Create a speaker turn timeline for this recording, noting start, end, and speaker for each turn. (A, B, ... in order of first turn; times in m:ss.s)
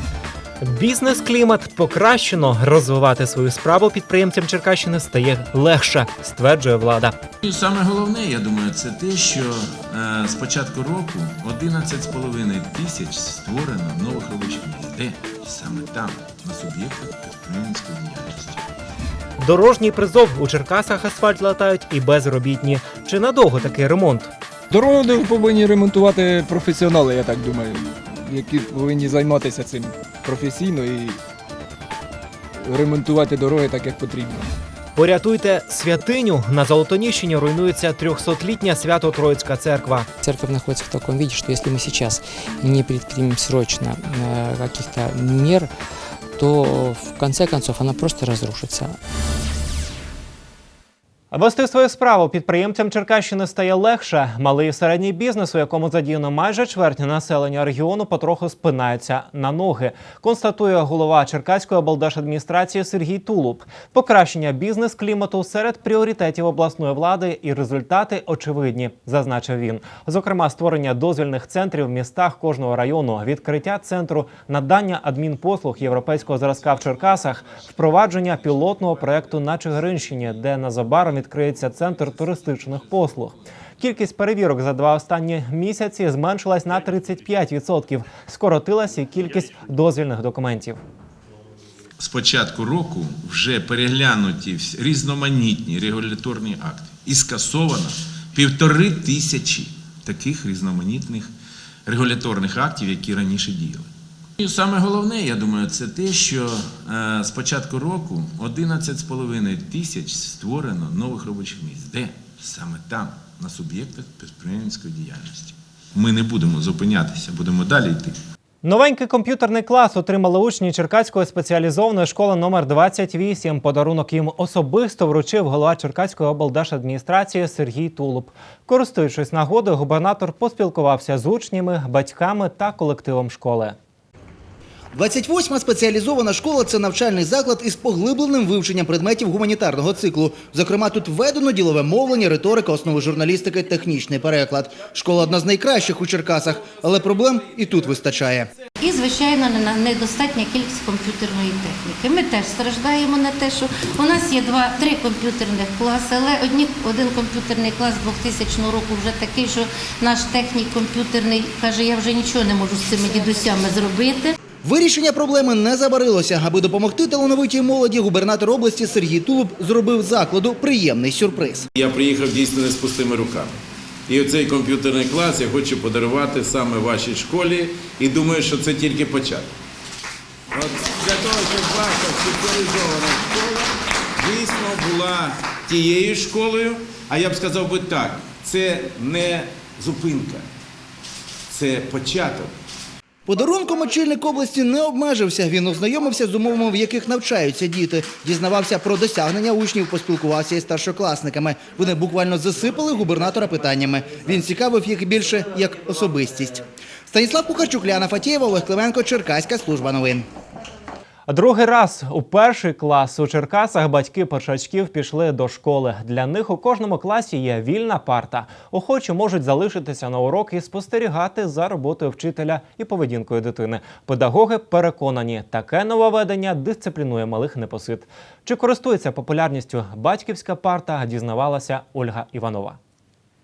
0:00.6-0:07.2 A
0:07.4-0:18.7 B
0:19.4-0:24.3 A
0:24.7-0:31.2 C
0:32.6-0:34.5 C
0:35.0-0:40.1 A
0:40.2-0:45.7 D
0:46.3-0:49.0 D
0:51.3-1:30.8 A
1:32.0-1:41.3 B
1:41.8-1:58.2 B
1:58.6-2:13.8 A
2:14.9-2:28.5 E
2:28.8-2:44.3 F
2:44.6-2:51.6 E
2:51.7-2:53.5 B
2:54.1-2:59.5 B
3:00.5-3:10.4 B
3:11.5-3:12.5 B
3:13.3-3:30.2 E
3:31.3-3:52.8 A